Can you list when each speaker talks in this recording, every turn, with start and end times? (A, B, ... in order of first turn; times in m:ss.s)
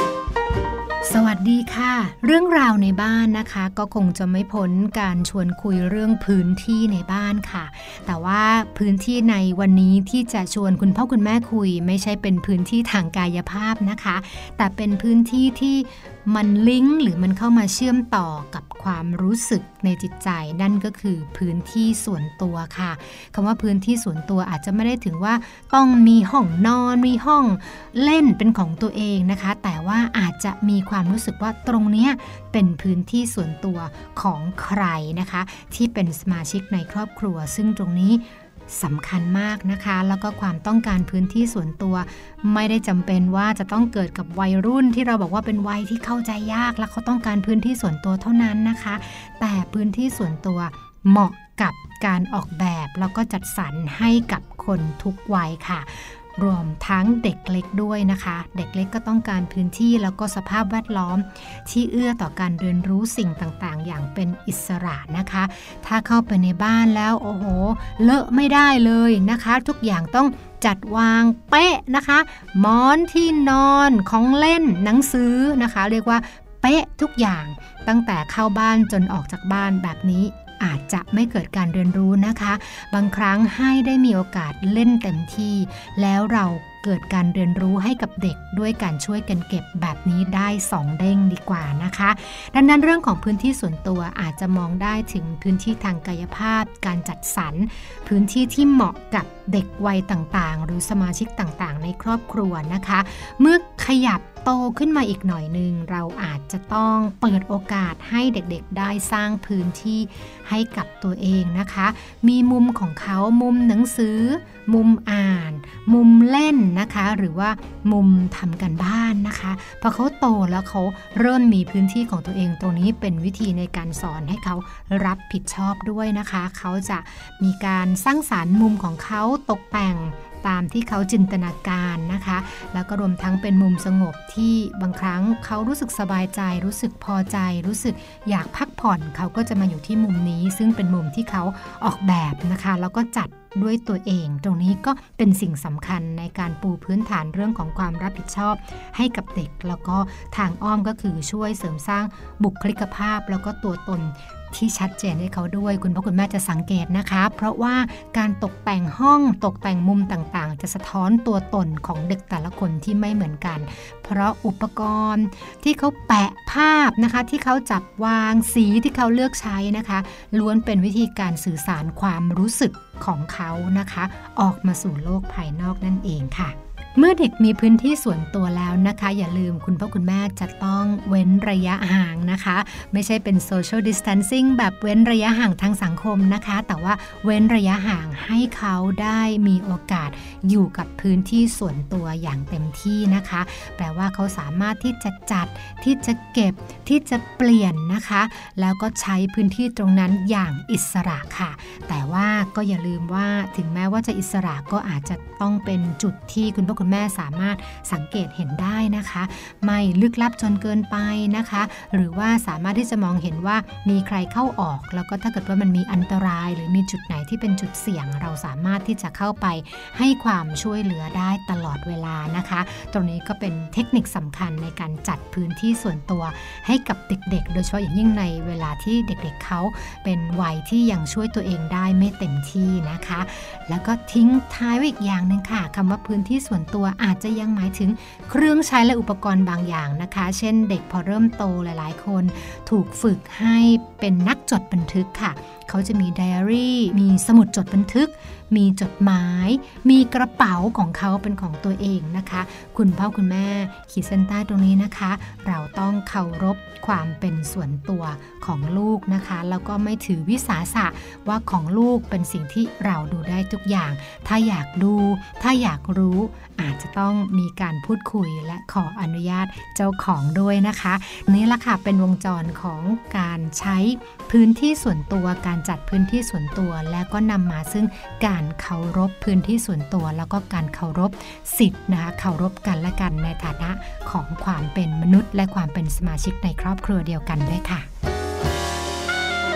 0:01.0-4:47.9 A